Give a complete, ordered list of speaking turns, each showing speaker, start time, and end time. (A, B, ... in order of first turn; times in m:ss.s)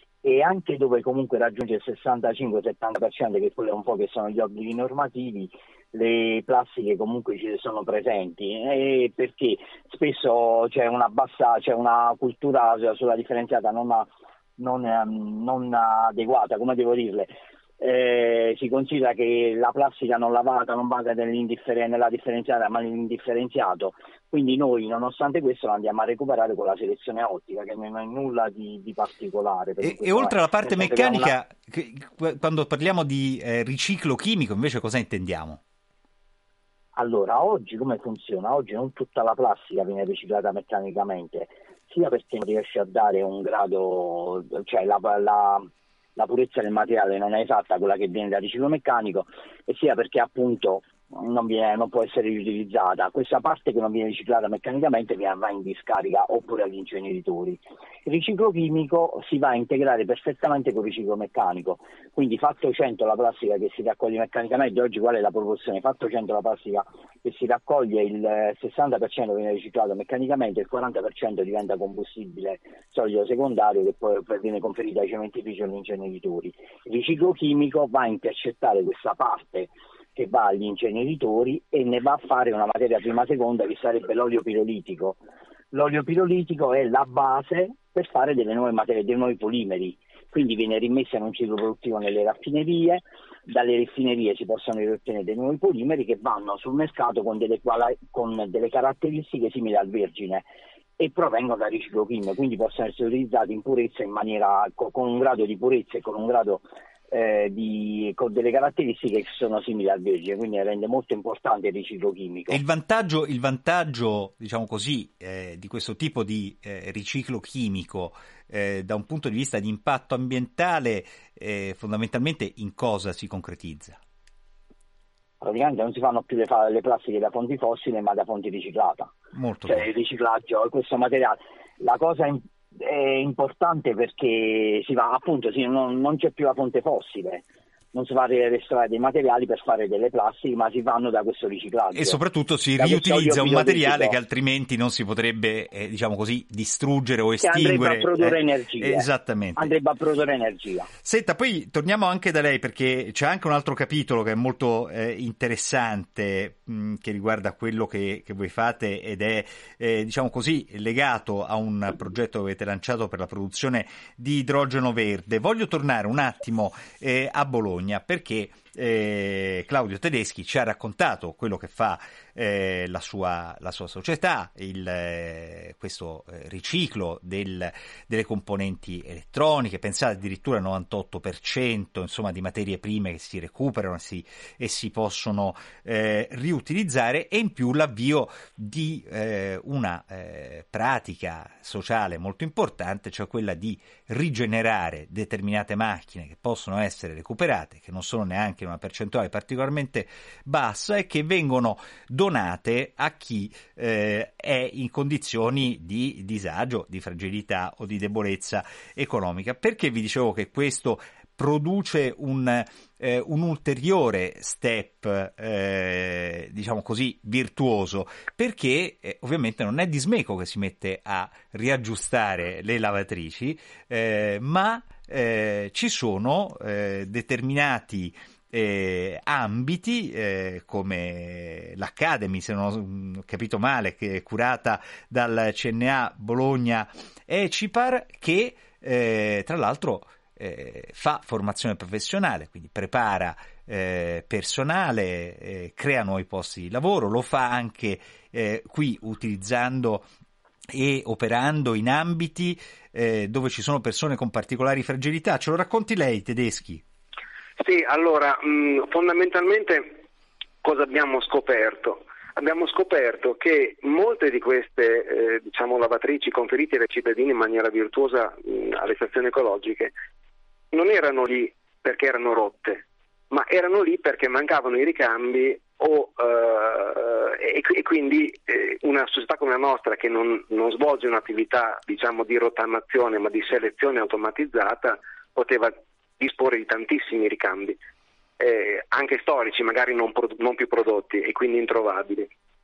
0:00.2-0:31.3 A
0:29.8-0:35.6 B
0:37.0-1:25.2 A
1:25.7-1:52.6 A
1:52.5-2:04.0 B
2:05.4-2:09.1 A
2:09.3-2:09.9 B
2:09.7-2:22.2 A
2:21.9-2:29.7 B
2:22.8-2:24.2 A
2:27.4-2:30.9 A
2:31.0-4:10.1 B
4:10.7-4:16.8 B
4:17.6-4:20.0 C
4:20.6-4:29.9 C
4:30.7-4:47.8 C
4:48.4-4:52.3 C